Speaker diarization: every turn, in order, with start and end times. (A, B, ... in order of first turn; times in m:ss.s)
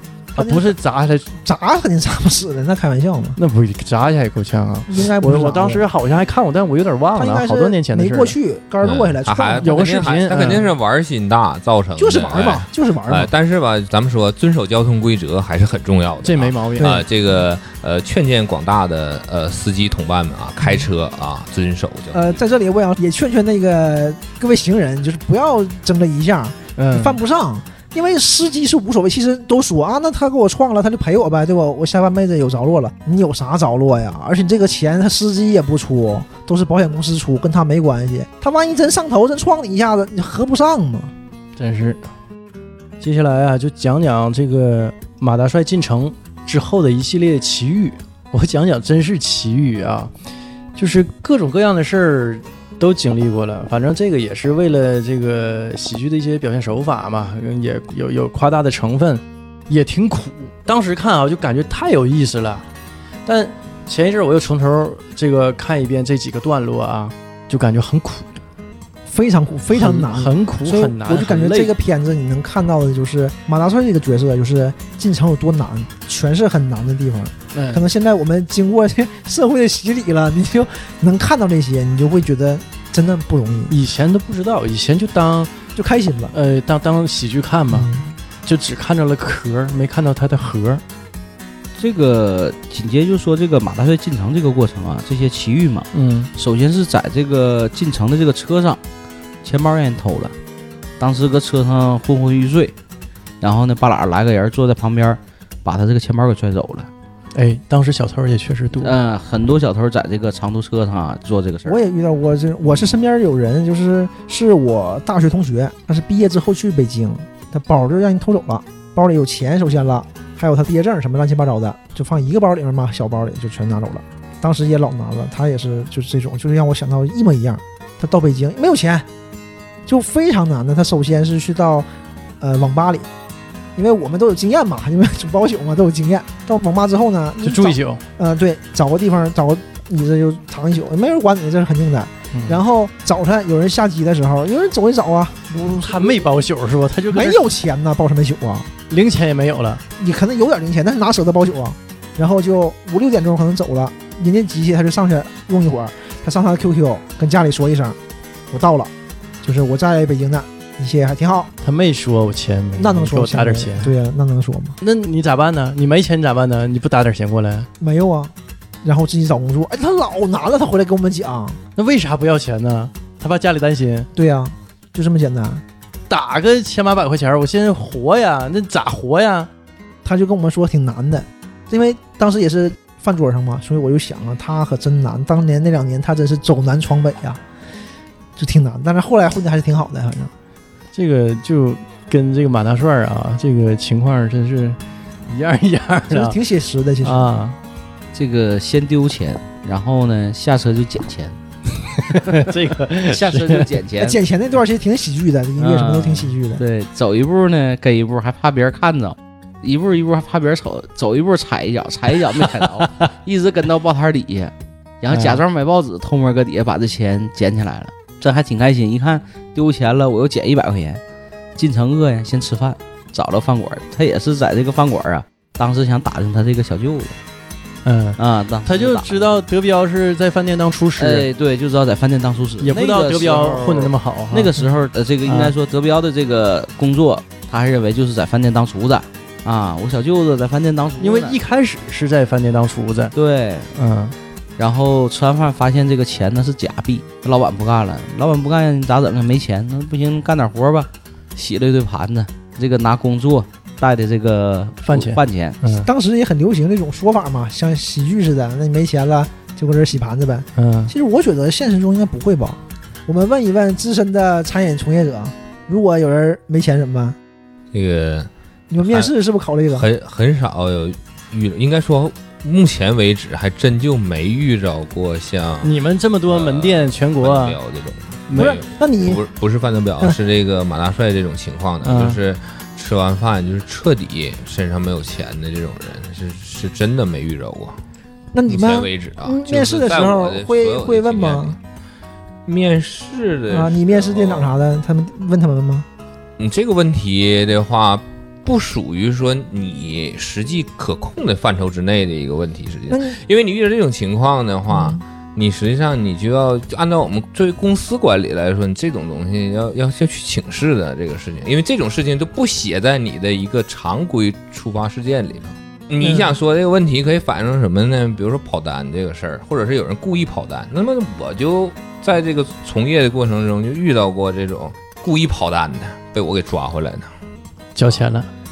0:00.3-0:00.7 A
0:00.4-0:01.3 B
0:01.4-0:03.4 A
0:03.4-0:08.4 B
0:04.9-0:05.8 A
0:07.2-0:10.1 A
0:08.8-0:22.4 C
0:09.6-0:10.7 B
0:12.0-0:13.3 A
0:16.2-0:17.0 B
0:16.8-0:17.4 A
0:20.6-0:20.8 A
0:22.1-0:41.1 A
0:26.8-0:27.2 B
0:41.6-0:42.0 B
0:43.0-0:50.1 B
0:50.7-1:02.6 B
1:03.2-1:08.3 B
1:09.1-1:23.7 A
1:09.7-1:11.7 B
1:17.5-1:17.8 B
1:23.7-1:25.5 B
1:25.7-1:26.3 A
1:26.3-1:27.9 B
1:27.7-1:28.1 A
1:28.4-1:30.8 B
1:31.8-1:38.8 D
1:35.9-1:36.3 B
1:39.4-1:40.3 D
1:41.0-1:42.7 D
1:43.4-1:46.9 D
1:47.3-1:49.0 B
1:48.8-1:51.8 D
1:51.6-2:09.0 A
2:09.8-2:11.9 A
2:12.4-2:13.1 A
2:13.7-2:26.3 A
2:17.4-2:18.0 B
2:22.3-2:22.6 B
2:25.5-2:27.4 B
2:27.1-2:28.7 A
2:28.9-2:29.8 B
2:30.0-2:38.0 A
2:38.5-2:38.9 A
2:39.4-2:41.5 A
2:41.6-2:43.9 B
2:42.8-2:44.8 A
2:44.8-2:47.7 B
2:47.8-2:48.3 A
2:48.8-2:51.6 A
2:51.8-2:54.1 B
2:54.1-2:55.6 A
2:56.1-2:59.5 B
3:00.0-3:07.4 A
3:08.4-3:10.3 A
3:10.9-3:16.4 B
3:16.1-3:17.3 A
3:17.0-3:17.6 B
3:18.1-3:21.4 D
3:21.9-3:23.7 B
3:23.0-3:24.2 D
3:24.0-3:26.6 A
3:25.6-3:41.0 D
3:32.4-3:33.1 B
3:35.1-3:35.4 B
3:41.6-3:47.2 D
3:47.8-3:51.3 B
3:48.2-3:49.4 D
3:51.0-4:01.4 D
3:52.6-3:54.5 B
3:55.2-3:55.5 B
4:01.0-4:03.1 B
4:03.1-4:03.7 D
4:03.7-4:04.2 B
4:04.6-4:15.6 D
4:14.8-4:15.9 B
4:15.8-4:27.2 A
4:20.6-4:20.9 B
4:27.7-4:28.3 C
4:28.7-4:29.8 A
4:28.8-4:29.1 C
4:29.7-4:35.7 C
4:35.6-4:37.6 B
4:36.3-4:47.8 C
4:38.3-4:38.6 B
4:38.3-4:39.2 A
4:41.8-4:42.2 B
4:48.3-4:51.6 A
4:48.5-4:51.6 C
4:52.4-4:54.5 C
4:53.5-4:55.8 A
4:56.4-5:27.1 C
5:02.9-5:03.2 A
5:04.7-5:05.0 A
5:16.0-5:16.3 A
5:27.8-5:28.3 B